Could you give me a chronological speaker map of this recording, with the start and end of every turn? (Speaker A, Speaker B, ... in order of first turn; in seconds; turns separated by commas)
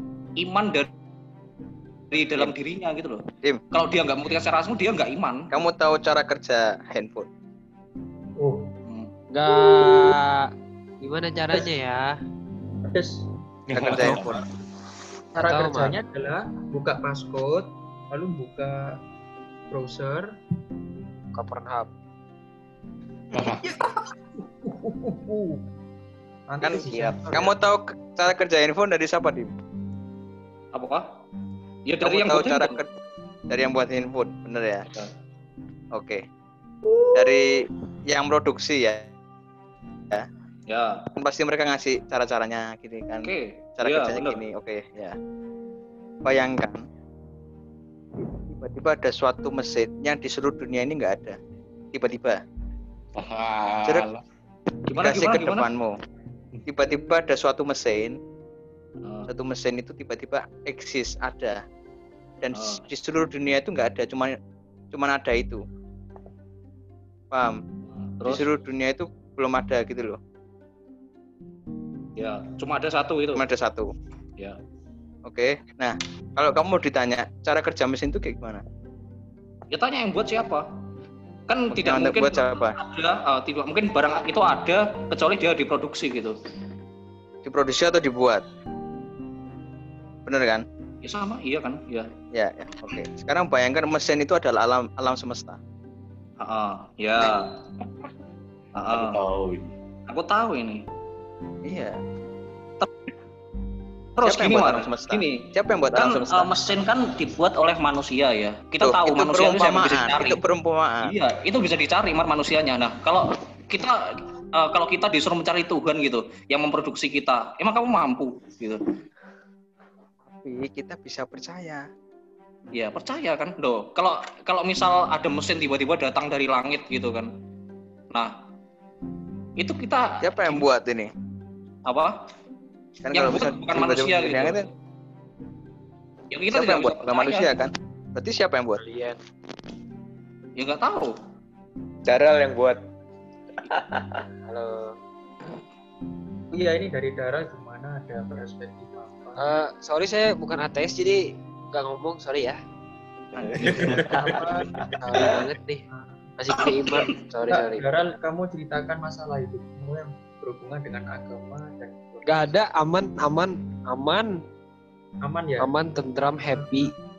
Speaker A: 0.4-0.9, Speaker A: 2.1-5.5, Speaker B: 5.5-7.3, Speaker C: 8.4-8.7, Speaker D: 9.3-10.5, Speaker C: 9.5-10.1, Speaker D: 11.0-12.1, Speaker C: 12.9-13.2, Speaker E: 13.7-14.4, Speaker B: 13.7-14.4, Speaker C: 15.3-18.9, Speaker D: 15.4-16.0, Speaker C: 19.7-20.3, Speaker D: 21.3-21.9, Speaker E: 23.3-23.6, Speaker C: 24.6-25.6, Speaker C: 26.5-27.5, Speaker B: 26.6-29.5, Speaker F: 26.7-27.4, Speaker A: 30.7-31.0, Speaker A: 31.9-32.8, Speaker B: 32.0-32.9, Speaker B: 33.5-34.9, Speaker B: 35.9-36.2, Speaker B: 37.1-39.1, Speaker A: 40.7-41.0, Speaker B: 41.2-45.2, Speaker A: 43.2-44.4, Speaker B: 46.2-46.8, Speaker B: 48.2-51.4, Speaker B: 51.9-52.4, Speaker E: 53.1-54.2, Speaker A: 54.9-55.7, Speaker B: 55.0-55.9, Speaker B: 56.6-58.2, Speaker A: 59.0-59.3, Speaker B: 59.3-61.6, Speaker B: 62.4-64.3, Speaker A: 62.5-62.8, Speaker B: 64.9-65.6, Speaker B: 67.3-67.6, Speaker A: 68.2-68.6, Speaker B: 68.3-70.2, Speaker A: 72.2-73.4, Speaker B: 73.3-73.9, Speaker B: 75.2-78.6, Speaker A: 79.7-80.6, Speaker A: 81.5-86.3, Speaker B: 81.7-82.8, Speaker B: 87.4-88.4, Speaker B: 90.2-90.6, Speaker A: 91.0-92.1, Speaker B: 92.3-95.6, Speaker A: 96.4-97.5, Speaker A: 98.8-99.2, Speaker E: 98.9-99.7, Speaker A: 100.1-100.8, Speaker B: 101.6-102.0, Speaker A: 104.2-105.4, Speaker B: 104.2-106.6, Speaker A: 105.9-110.4, Speaker B: 108.8-111.1, Speaker A: 111.0-118.8, Speaker B: 120.3-121.8, Speaker A: 122.7-127.3, Speaker A: 129.6-130.6, Speaker B: 130.2-131.1, Speaker A: 131.9-132.1, Speaker B: 133.0-134.7, Speaker A: 133.1-134.7, Speaker A: 136.3-137.5, Speaker B: 136.5-138.8, Speaker D: 138.8-139.2, Speaker A: 140.6-141.1, Speaker F: 142.0-142.8, Speaker F: 143.6-144.2, Speaker D: 144.4-144.9, Speaker C: 146.5-149.5, Speaker D: 149.4-152.6, Speaker B: 153.4-154.2, Speaker F: 153.4-154.3, Speaker C: 154.0-155.3, Speaker D: 155.0-155.8, Speaker C: 155.9-156.2, Speaker D: 156.4-157.8, Speaker C: 157.5-162.5, Speaker D: 162.2-164.4, Speaker C: 165.2-165.7, Speaker D: 165.6-166.9